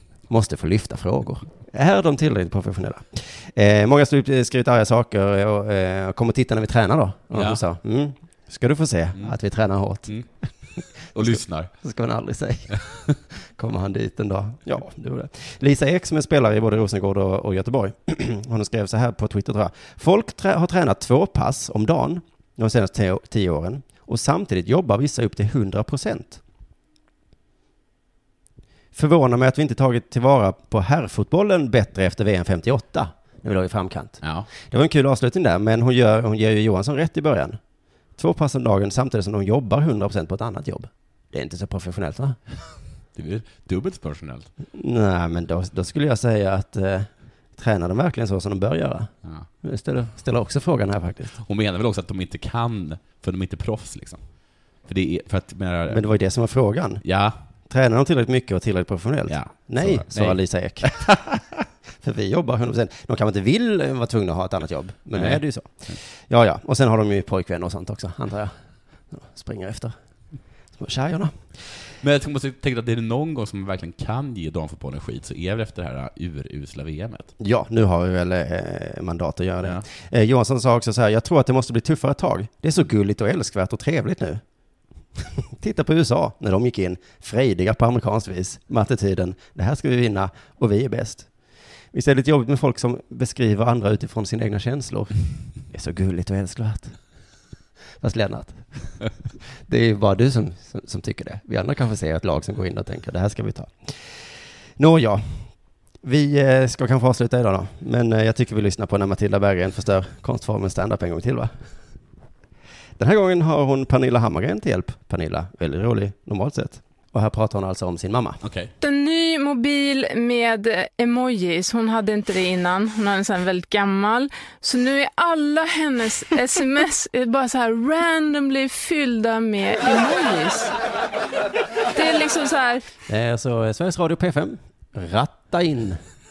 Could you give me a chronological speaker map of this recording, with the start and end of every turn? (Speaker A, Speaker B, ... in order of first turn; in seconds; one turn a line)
Speaker A: 0.3-26.4
Speaker B: 7.3-7.6
Speaker B: 10.9-11.7
Speaker A: 28.9-37.6
Speaker B: 34.2-34.5
Speaker A: 38.2-42.4
Speaker B: 43.1-44.5
Speaker A: 44.7-51.4
Speaker B: 51.4-54.2
Speaker B: 54.8-56.0
Speaker A: 55.9-57.0
Speaker B: 57.0-57.4
Speaker A: 57.6-61.2
Speaker B: 59.3-61.6
Speaker A: 62.0-68.5
Speaker B: 65.1-66.0
Speaker A: 69.1-69.9
Speaker A: 70.7-71.5
Speaker B: 72.0-77.3
Speaker A: 77.4-84.4
Speaker A: 85.2-91.3
Speaker A: 91.9-97.0
Speaker A: 98.0-104.2
Speaker A: 104.8-111.6
Speaker A: 113.0-118.4
Speaker B: 118.4-118.7
Speaker C: 118.8-130.7
Speaker C: 131.9-132.8
Speaker A: 133.1-136.0